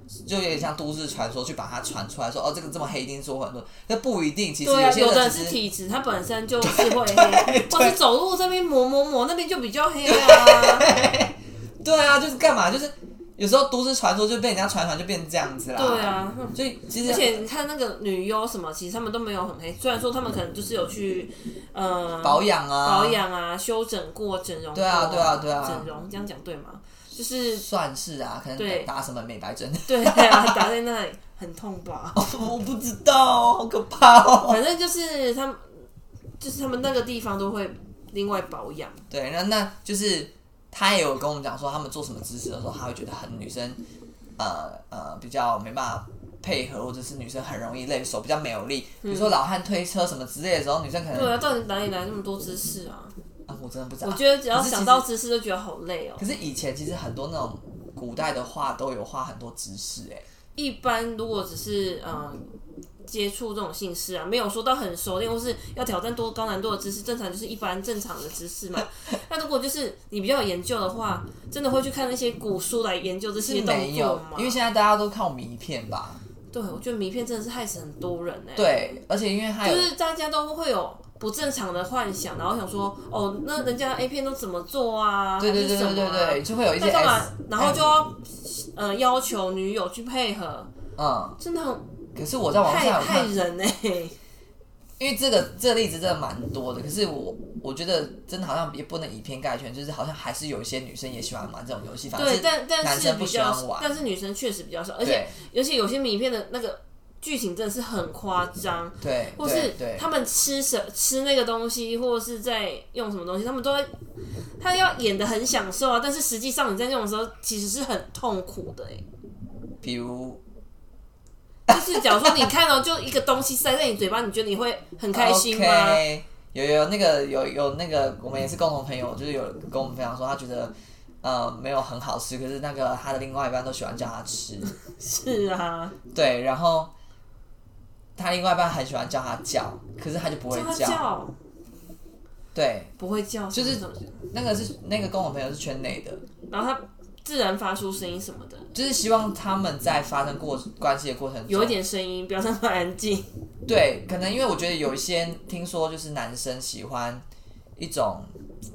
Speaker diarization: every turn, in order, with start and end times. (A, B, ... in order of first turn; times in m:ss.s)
0:00.2-0:05.6 A
0:04.6-0:10.9 B
0:06.6-0:08.0 A
0:10.0-0:17.4 A
0:15.8-0:27.6 B
0:22.2-0:23.2 A
0:24.7-0:25.9 A
0:27.6-0:30.6 A
0:28.6-0:28.9 B
0:29.9-0:32.2 B
0:32.2-0:34.6 A
0:34.5-0:35.8 B
0:36.4-0:39.0 B
0:39.1-0:43.8 A
0:44.4-0:51.3 A
0:49.0-0:49.3 B
0:51.1-0:53.2 B
0:53.5-0:55.1 A
0:54.0-0:56.3 B
0:56.2-1:00.2 A
1:00.6-1:02.5 B
1:03.1-1:14.7 B
1:13.4-1:16.2 A
1:16.5-1:18.9 B
1:18.6-1:19.9 A
1:19.6-1:30.7 B
1:25.4-1:28.0 A
1:31.0-1:31.4 A
1:31.4-1:31.8 B
1:32.2-1:33.3 A
1:32.6-1:34.2 B
1:35.0-1:43.9 A
1:42.1-1:53.9 B
1:45.0-1:45.4 A
1:49.0-1:50.1 A
1:54.6-1:59.0 B
1:59.8-2:00.4 A
2:01.7-2:06.0 B
2:05.1-2:14.7 A
2:14.8-2:16.0 B
2:16.1-2:16.9 A
2:18.2-2:21.0 A
2:20.5-2:21.4 B
2:22.5-2:22.9 A
2:23.0-2:24.1 B
2:23.5-2:26.2 A
2:26.5-2:28.7 B
2:28.7-2:31.8 A
2:31.5-2:33.3 B
2:33.7-2:37.2 A
2:37.8-2:38.3 A